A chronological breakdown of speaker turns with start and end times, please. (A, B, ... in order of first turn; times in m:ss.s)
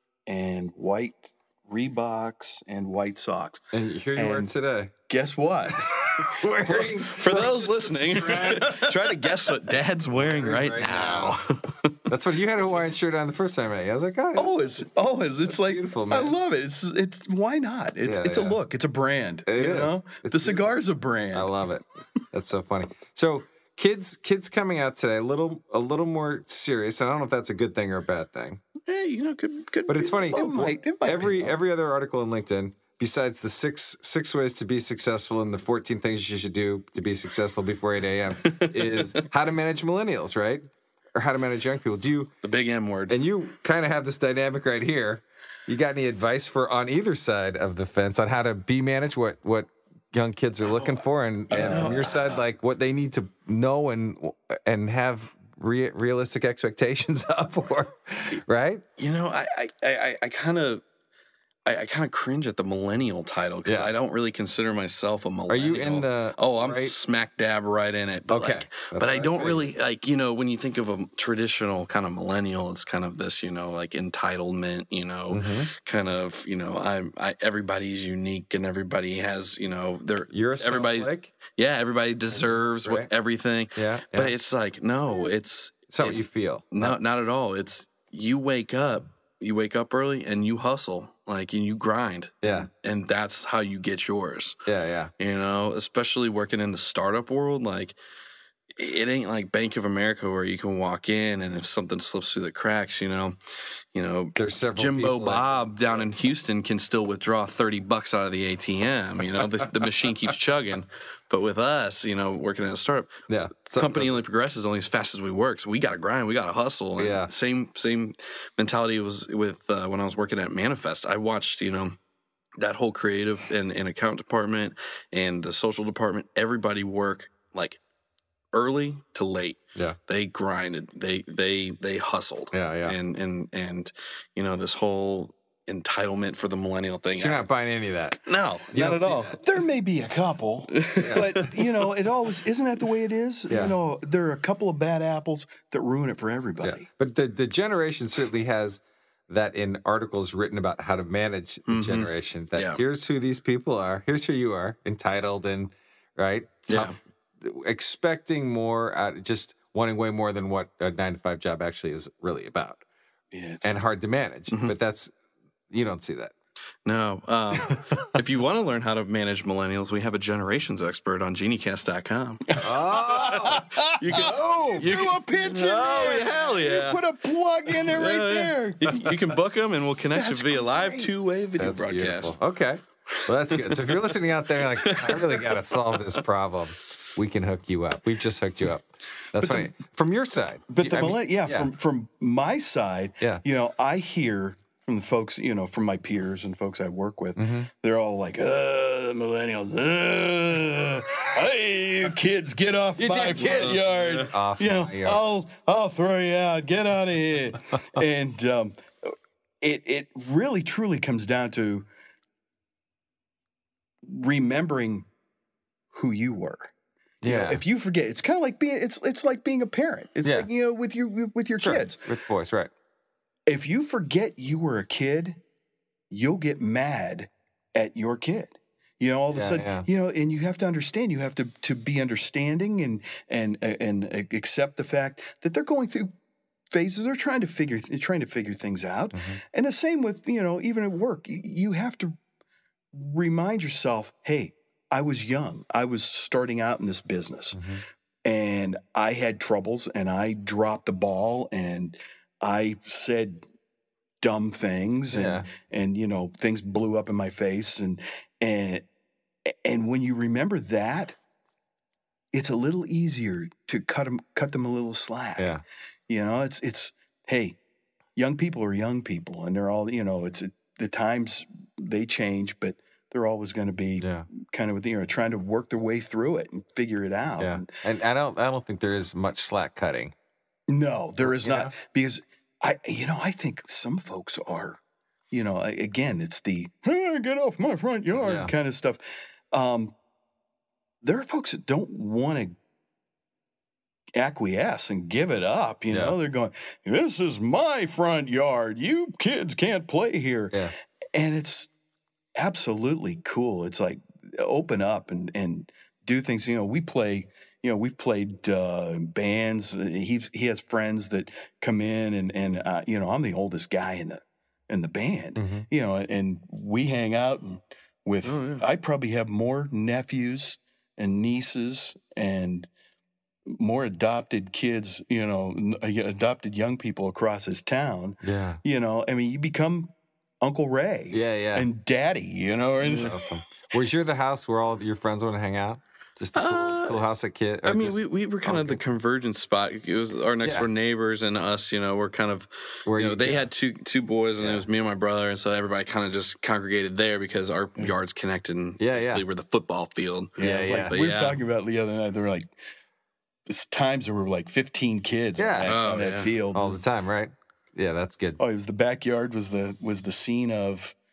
0:00.3-0:03.6 A
0:03.7-0:04.9 B
0:04.1-0:04.5 A
0:05.1-0:09.5 A
0:05.8-0:08.7 B
0:06.8-0:12.0 C
0:10.1-0:11.4 B
0:12.1-0:14.5 B
0:14.4-0:21.5 A
0:15.6-0:16.3 B
0:18.0-0:18.6 B
0:19.4-0:20.6 B
0:21.3-0:28.6 B
0:28.9-0:30.5 C
0:29.9-0:42.3 B
0:30.3-0:31.5 A
0:38.4-0:39.0 C
0:42.4-0:43.1 C
0:43.1-0:58.8 B
0:50.7-0:52.4 C
0:51.5-0:52.0 A
0:59.0-1:00.8 C
1:01.6-1:34.6 C
1:03.6-1:03.9 B
1:05.5-1:06.9 B
1:08.3-1:09.7 B
1:15.3-1:15.7 B
1:20.3-1:21.3 B
1:22.4-1:23.1 B
1:23.8-1:24.3 B
1:25.9-1:27.0 B
1:32.4-1:32.7 B
1:34.6-1:35.1 B
1:35.2-1:38.0 C
1:38.8-1:43.4 C
1:43.9-1:53.1 C
1:44.4-1:46.0 B
1:53.3-1:54.2 B
1:53.7-2:02.0 C
1:57.0-1:57.3 B
2:02.6-2:07.8 C
2:08.5-2:17.4 C
2:12.5-2:13.0 B
2:17.1-2:19.4 B
2:18.2-2:19.4 C
2:19.4-2:26.9 A
2:20.7-2:21.5 C
2:21.0-2:21.5 B
2:23.5-2:23.7 B
2:26.6-2:42.8 B
2:31.7-2:32.8 C
2:36.7-2:36.9 C
2:43.3-2:43.7 A
2:43.6-2:45.1 B
2:45.7-2:46.3 B
2:46.8-2:52.6 C
2:52.6-2:55.0 B
2:52.6-2:59.2 A
2:53.2-2:57.0 C
2:57.7-3:02.3 C
3:00.1-3:01.1 A
3:01.6-3:11.7 B
3:03.5-3:04.1 C
3:04.6-3:06.0 C
3:09.4-3:09.7 A
3:10.7-3:31.9 A
3:17.4-3:17.7 B
3:23.0-3:25.2 B
3:23.4-3:23.9 C
3:34.0-3:35.1 A
3:35.9-3:36.7 A
3:37.2-3:37.6 B
3:37.2-3:42.0 A
3:40.2-3:40.5 B
3:41.6-3:42.7 B
3:43.5-3:45.4 A
3:46.1-3:56.1 A
3:49.3-3:49.9 B
3:56.7-4:02.2 A
3:59.1-3:59.4 B
4:02.9-4:07.6 A
4:07.5-4:07.8 B
4:08.2-4:13.4 A
4:14.2-4:18.8 A
4:15.1-4:15.5 B
4:19.4-4:21.2 A
4:22.3-4:25.5 A
4:25.4-4:25.6 B
4:26.1-4:27.6 A
4:28.2-4:37.7 A
4:34.0-4:34.3 B
4:37.4-4:40.1 B
4:40.7-4:44.8 A
4:41.2-4:41.7 B
4:45.3-4:49.9 A
4:48.1-4:48.5 B
4:51.0-4:52.6 A
4:54.2-5:00.6 A
4:55.9-4:56.2 B
5:01.1-5:01.7 A
5:02.4-5:22.7 A
5:15.4-5:15.7 B
5:18.2-5:18.6 C
5:23.4-5:33.2 A
5:28.2-5:28.6 B
5:31.1-5:31.7 B
5:32.8-5:38.8 B
5:32.9-5:33.2 C
5:36.3-5:37.0 C
5:37.6-5:51.4 C
5:40.4-5:40.7 B
5:42.9-5:43.5 B
5:44.4-5:44.6 B
5:48.8-5:49.2 B
5:50.4-5:52.5 A
5:50.4-5:51.0 B
5:53.5-5:56.8 A
5:55.4-5:55.8 B
5:55.6-5:56.4 C
5:56.5-5:58.4 B
5:58.4-6:01.0 A